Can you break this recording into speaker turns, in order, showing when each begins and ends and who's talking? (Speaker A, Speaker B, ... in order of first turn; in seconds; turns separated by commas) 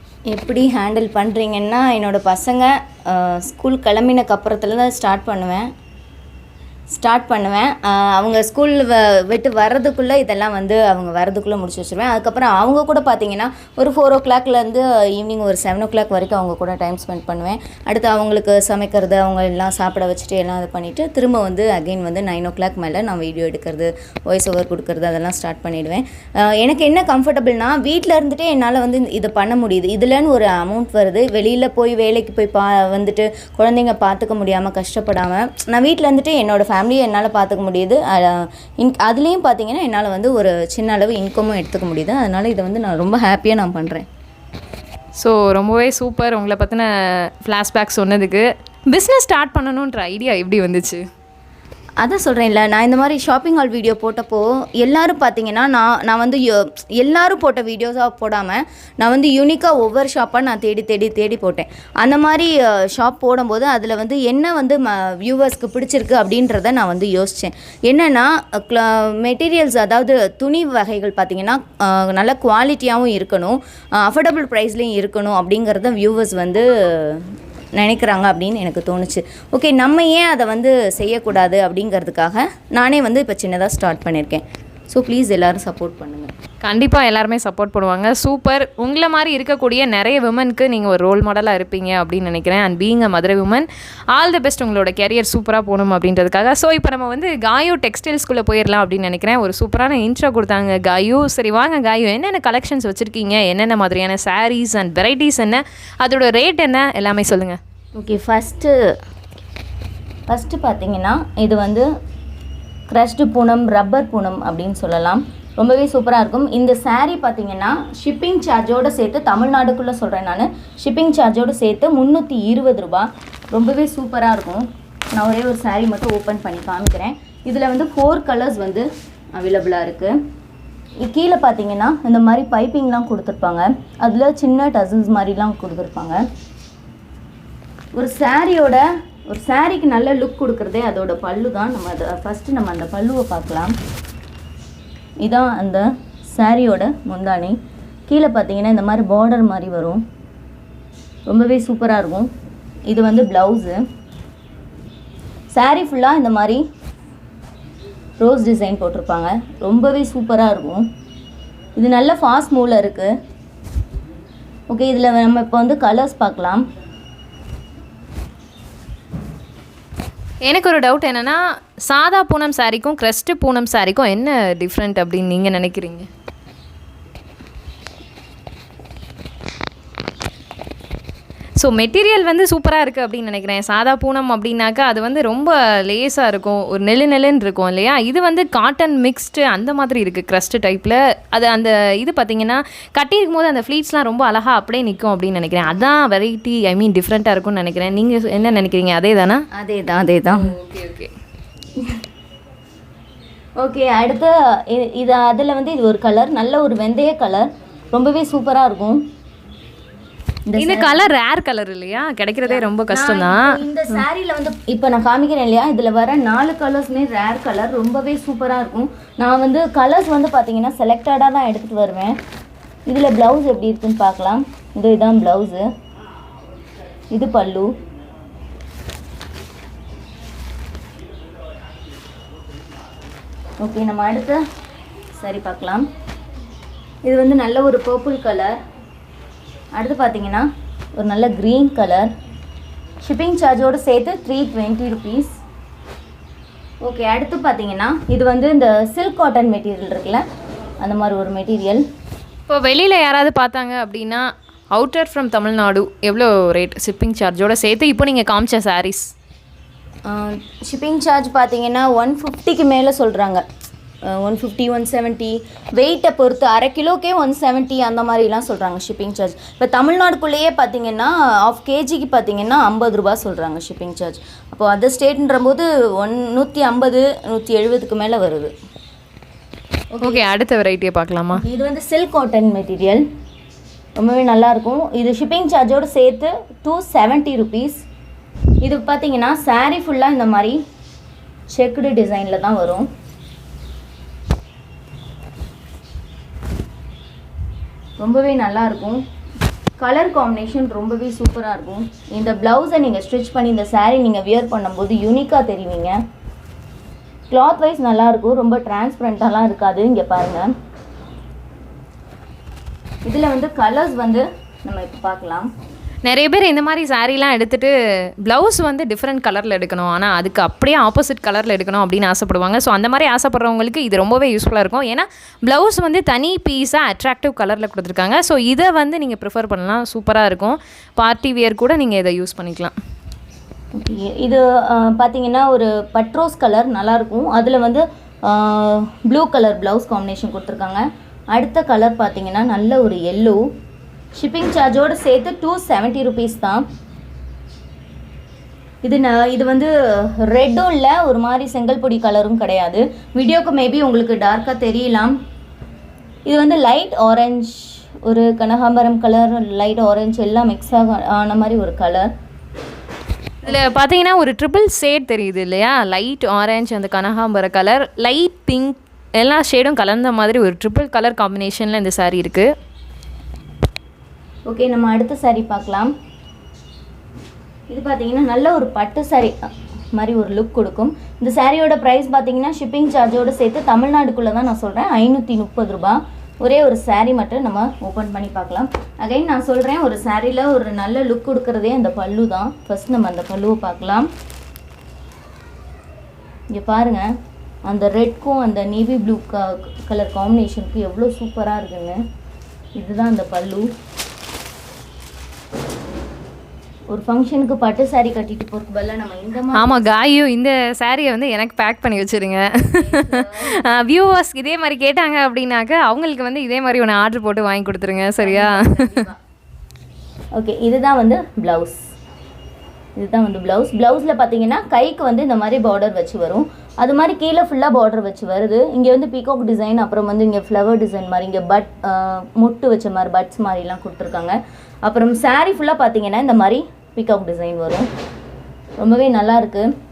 Speaker A: 0.3-5.7, Speaker A: 6.9-44.1, Speaker B: 45.2-51.0, Speaker A: 52.0-86.3, Speaker B: 86.6-107.6, Speaker A: 108.0-108.8, Speaker A: 110.3-111.9, Speaker A: 112.9-130.1, Speaker A: 131.0-136.2, Speaker A: 137.9-143.7, Speaker A: 145.2-147.6, Speaker A: 148.1-150.0, Speaker A: 151.3-152.3, Speaker A: 152.9-153.8, Speaker A: 155.5-156.6, Speaker A: 158.2-160.9, Speaker A: 161.8-163.1, Speaker A: 164.7-166.7, Speaker B: 170.4-176.1, Speaker B: 181.6-199.4, Speaker A: 199.6-200.5, Speaker B: 200.3-201.1, Speaker A: 203.6-209.0, Speaker A: 210.5-211.1, Speaker B: 210.6-213.6, Speaker A: 212.5-222.2, Speaker A: 222.9-225.7, Speaker A: 227.1-227.7, Speaker A: 233.6-234.4, Speaker A: 235.2-235.9, Speaker A: 237.1-238.5, Speaker A: 239.8-242.1, Speaker A: 243.0-245.4, Speaker A: 246.8-250.2, Speaker A: 250.8-251.8, Speaker B: 252.5-259.1, Speaker A: 260.1-263.4, Speaker A: 264.1-278.5, Speaker A: 280.0-280.3, Speaker B: 280.0-281.4, Speaker A: 281.4-283.0, Speaker A: 284.0-287.8, Speaker A: 288.6-290.6, Speaker A: 291.5-292.9, Speaker A: 298.0-299.0, Speaker A: 299.8-306.0, Speaker A: 307.3-310.5, Speaker A: 313.1-315.5, Speaker B: 316.0-317.7, Speaker B: 318.2-332.8, Speaker A: 333.8-343.4, Speaker A: 344.2-346.6, Speaker A: 348.8-355.1, Speaker A: 356.3-362.1, Speaker B: 363.4-372.5, Speaker A: 374.5-375.9, Speaker A: 377.7-379.3, Speaker A: 379.9-394.1, Speaker A: 396.5-397.1, Speaker A: 397.7-402.0, Speaker A: 402.8-403.7, Speaker A: 406.9-409.9, Speaker B: 409.6-419.0, Speaker A: 412.6-413.6, Speaker A: 418.2-419.2, Speaker A: 420.4-421.8, Speaker A: 423.0-437.9, Speaker A: 438.8-439.7